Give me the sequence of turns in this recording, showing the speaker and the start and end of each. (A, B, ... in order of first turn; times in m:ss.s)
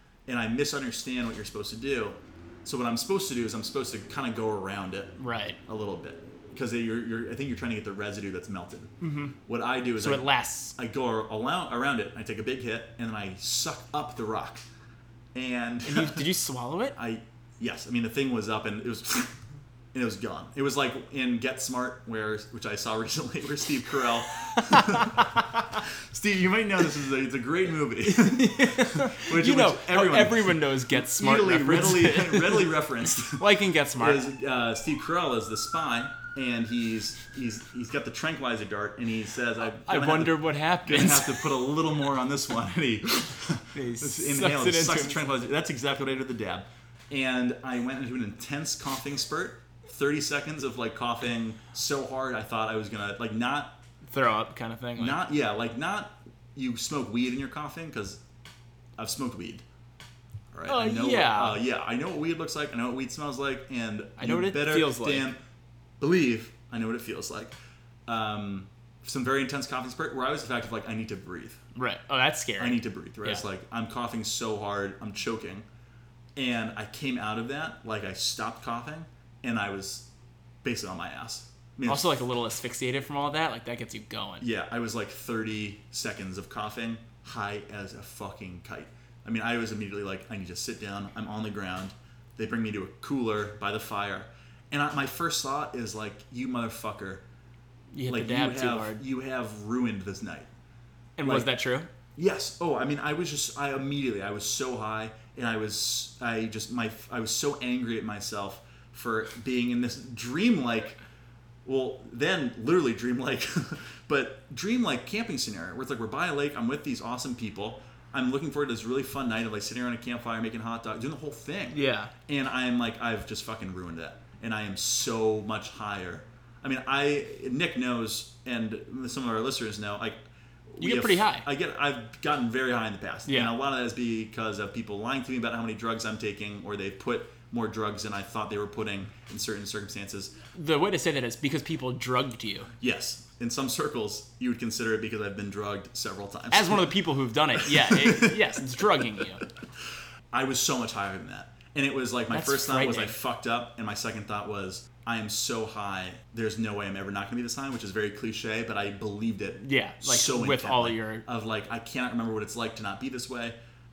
0:00.3-0:08.9 A
0:05.2-0:05.6 B
0:09.0-0:09.4 B
0:09.4-0:14.6 A
0:10.0-0:10.8 B
0:15.3-0:16.3 A
0:15.8-0:17.0 B
0:17.0-0:19.4 A
0:19.9-0:53.8 A
0:24.6-0:25.2 B
0:28.0-0:34.3 B
0:39.8-0:41.5 B
0:43.7-0:45.2 B
0:54.1-0:55.2 B
0:55.0-0:58.2 A
0:59.0-0:59.6 A
1:00.5-1:05.4 A
1:00.7-1:01.6 B
1:04.2-1:05.3 B
1:06.0-1:07.5 A
1:08.1-1:11.6 A
1:11.8-1:13.4 B
1:12.6-1:15.7 A
1:16.4-1:20.1 A
1:20.6-1:22.2 A
1:21.9-1:24.5 B
1:24.4-1:37.2 A
1:37.9-1:39.0 B
1:38.1-1:40.5 A
1:41.2-1:41.9 B
1:41.2-1:41.5 A
1:42.2-1:51.0 A
1:51.6-2:10.2 A
2:01.7-2:02.1 B
2:10.7-2:20.3 A
2:10.8-2:11.5 B
2:13.3-2:13.5 B
2:20.5-2:22.7 B
2:22.8-2:26.9 A
2:26.5-2:29.4 B
2:27.6-2:28.4 A
2:30.3-2:43.6 A
2:32.3-2:33.1 B
2:39.6-2:41.3 B